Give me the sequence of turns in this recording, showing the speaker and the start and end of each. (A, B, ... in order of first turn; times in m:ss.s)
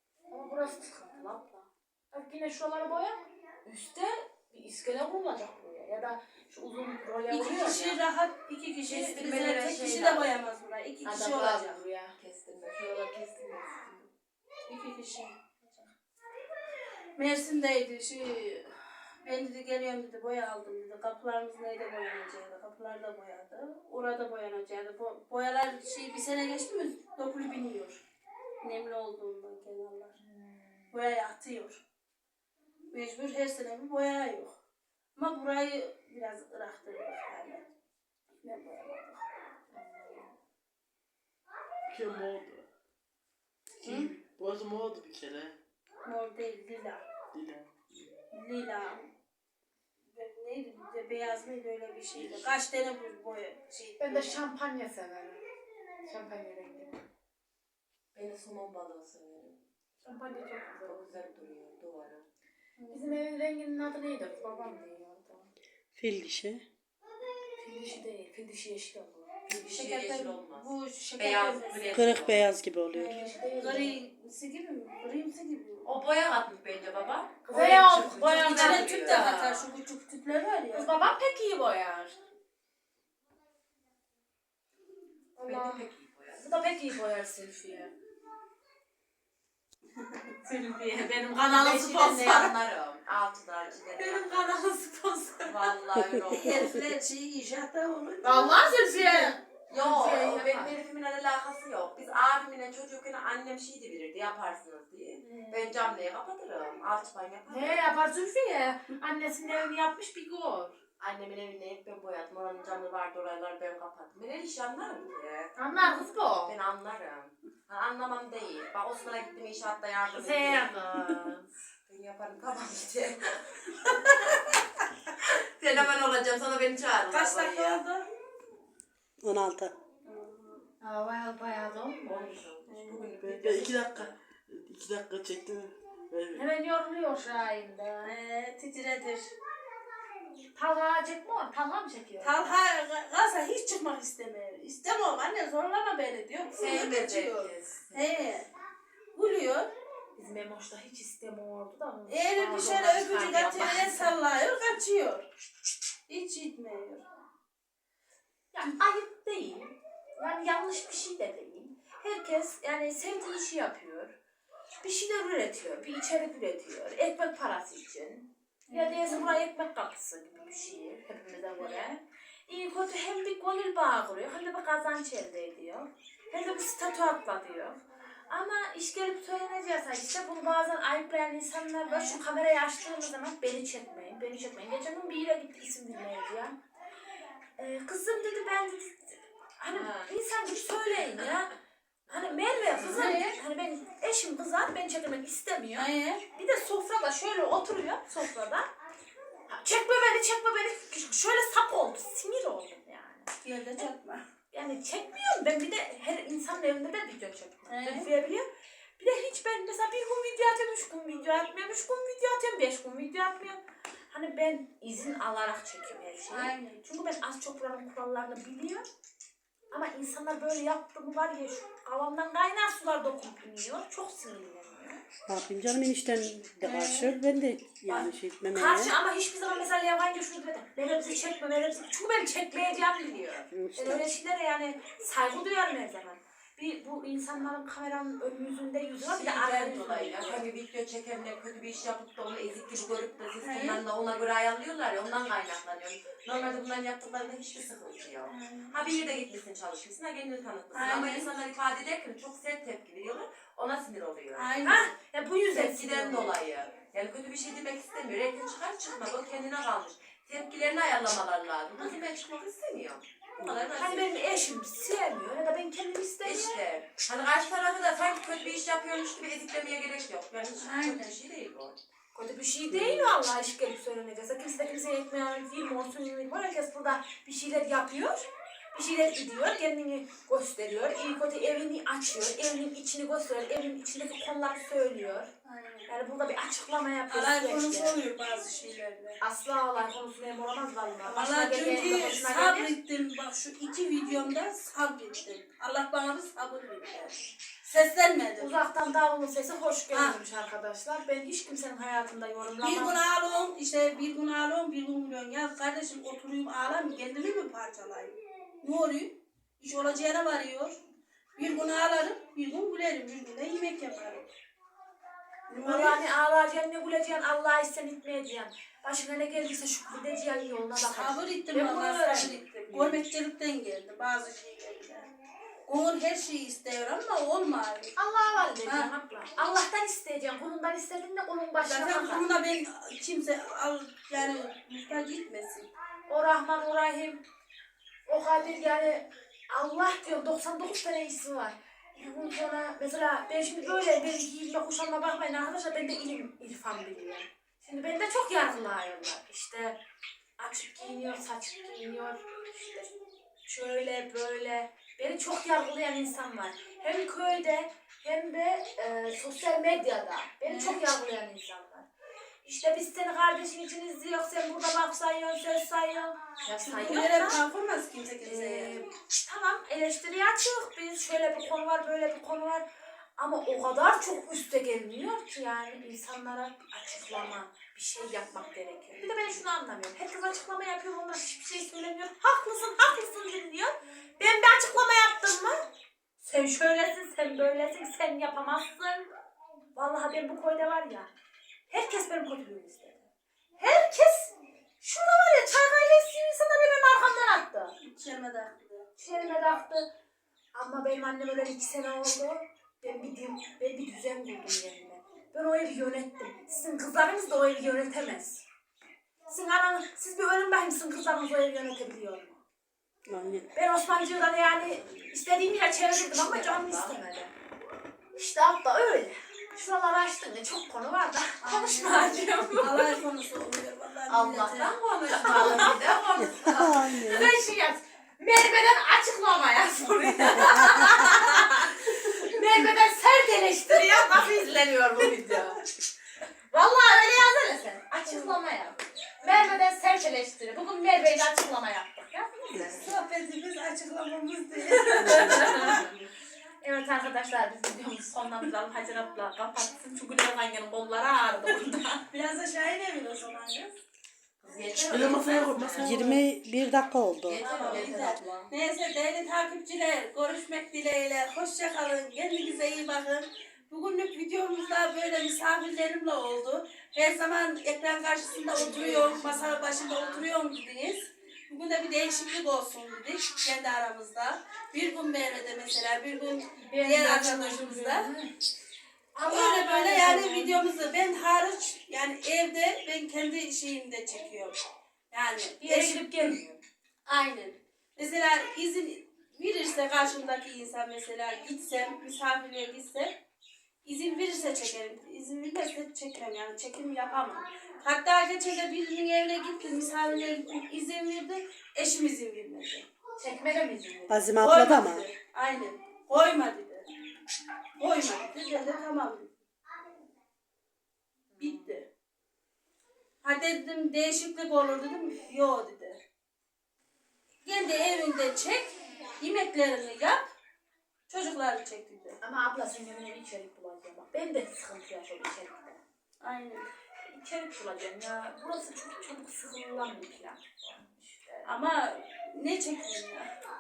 0:00.3-0:08.0 A
0:07.3-0:11.8 B
0:08.8-0:10.3 C
0:11.0-0:12.2 A
0:12.2-0:14.1 C
0:14.7-0:15.9 B
0:17.2-0:28.0 B
0:28.6-0:30.2 B
0:30.2-0:30.9 A
0:30.9-0:31.8 B
0:32.9-0:34.6 B
0:35.2-0:37.7 B
0:38.4-0:39.2 B
0:39.7-0:40.3 A
0:41.9-0:42.7 D
0:43.8-0:44.1 B
0:43.9-0:45.6 D
0:46.0-0:47.1 B
0:47.3-0:48.2 D
0:48.3-0:49.1 B
0:50.0-0:54.4 B
0:52.2-0:52.5 D
0:54.0-0:55.4 A
0:56.0-0:57.0 A
0:58.1-0:59.6 C
1:00.0-1:01.2 A
1:00.8-1:02.2 C
1:02.8-1:03.2 B
1:02.9-1:05.5 A
1:06.0-1:06.6 E
1:07.6-1:09.4 A
1:09.5-1:12.5 C
1:09.6-1:12.3 B
1:11.9-1:13.2 E
1:12.9-1:14.0 A
1:12.9-1:15.9 B
1:15.8-1:19.7 C
1:17.5-1:19.3 A
1:17.5-1:20.9 B
1:20.7-1:22.2 A
1:25.4-1:27.9 A
1:25.4-1:26.5 C
1:30.0-1:30.3 B
1:30.4-1:32.5 A
1:31.3-1:34.4 C
1:34.0-1:35.7 A
1:35.4-1:36.8 C
1:36.3-1:39.4 B
1:38.2-1:40.7 A
1:39.7-1:48.0 C
1:45.2-1:45.8 A
1:47.5-1:50.8 A
1:51.0-2:04.6 C
1:55.6-1:56.5 A
2:00.1-2:01.0 A
2:05.1-2:07.8 C
2:07.1-2:08.0 B
2:09.2-2:09.7 E
2:10.1-2:10.6 B
2:10.8-2:12.4 A
2:12.0-2:14.1 C
2:12.7-2:13.2 B
2:13.2-2:16.5 D
2:16.4-2:18.2 A
2:18.0-2:19.3 B
2:20.6-2:22.5 A
2:22.2-2:28.5 B
2:26.5-2:28.4 C
2:29.1-2:29.7 B
2:30.2-2:34.2 A
2:32.1-2:35.3 B
2:36.1-2:37.0 B
2:38.5-2:44.1 A
2:44.7-3:06.6 A
2:48.7-2:49.4 B
2:51.6-2:51.9 B
3:01.8-3:02.2 B
3:07.6-3:11.5 A
3:09.7-3:10.1 C
3:12.1-3:13.3 C
3:12.1-3:18.7 A
3:12.8-3:13.4 B
3:15.8-3:16.2 B
3:19.5-3:23.9 A
3:23.4-3:24.2 B
3:24.5-3:28.5 A
3:27.7-3:28.1 B
3:29.0-3:38.8 A
3:36.3-3:36.8 B
3:39.7-3:45.0 A
3:45.3-3:48.9 E
3:46.6-3:47.2 B
3:47.9-4:00.5 A
3:53.5-3:54.2 E
3:59.0-4:14.6 C
4:03.4-4:03.8 B
4:08.3-4:08.8 B
4:10.7-4:11.3 B
4:14.4-4:14.9 B
4:14.6-4:16.4 A
4:15.5-4:24.4 C
4:23.8-4:26.6 A
4:26.2-4:31.8 C
4:30.6-4:31.1 B
4:32.1-4:45.3 A
4:32.7-4:33.2 E
4:45.4-4:45.9 B
4:45.9-4:48.0 A
4:47.1-4:49.2 B
4:49.2-4:52.7 A
4:51.1-4:58.5 B
4:58.4-5:03.0 A
4:59.9-5:00.2 B
5:02.6-5:10.8 B
5:11.4-5:14.3 B
5:15.5-5:16.0 B
5:15.6-5:22.5 A
5:20.9-5:25.1 B
5:22.7-5:23.0 E
5:25.7-5:28.0 B
5:28.0-5:32.3 A
5:28.6-5:28.9 B
5:31.6-5:35.7 B
5:36.1-5:37.2 A
5:38.1-5:49.8 A
5:50.4-5:52.9 A
5:53.5-6:01.9 A
6:00.4-6:00.8 B
6:02.4-6:07.4 A
6:06.6-6:08.8 B
6:08.2-6:12.6 A
6:13.2-6:25.6 A
6:26.2-6:29.1 A
6:29.8-6:31.1 A
6:31.7-6:37.8 A
6:37.8-6:38.9 B
6:39.0-6:39.9 A
6:40.5-6:48.4 A
6:49.3-6:52.4 A
6:53.1-6:53.5 E
6:53.5-6:57.3 A
6:56.0-6:57.0 C
6:58.2-7:03.0 A
7:01.4-7:04.8 B
7:04.1-7:15.6 A
7:04.3-7:07.3 C
7:06.2-7:07.3 E
7:10.2-7:10.8 E
7:13.7-7:15.6 C
7:16.5-7:23.0 A
7:18.1-7:18.4 B
7:22.8-7:25.8 B
7:24.7-7:25.9 A
7:25.6-7:25.9 C
7:26.6-7:32.1 A
7:32.1-7:33.8 B
7:34.4-7:36.2 C
7:34.9-7:36.2 D
7:35.8-7:37.4 E
7:37.3-7:38.3 C
7:37.4-7:58.1 B
7:37.4-7:38.5 A
7:48.5-7:49.6 A
7:49.9-7:50.2 C
7:56.6-7:58.3 A
7:59.2-8:00.6 A
7:59.2-8:04.6 B
8:05.1-8:06.4 B
8:05.6-8:06.6 A
8:07.1-8:13.2 B
8:13.8-8:22.9 B
8:23.2-8:24.3 A
8:24.1-8:25.1 E
8:24.4-8:26.9 B
8:27.8-8:29.4 B
8:31.3-8:31.7 A
8:31.4-8:31.9 B
8:33.2-8:36.0 B
8:37.4-8:40.3 B
8:41.1-8:42.2 B
8:42.2-8:45.8 A
8:46.2-8:46.7 B
8:47.0-8:51.5 A
8:51.4-8:53.3 B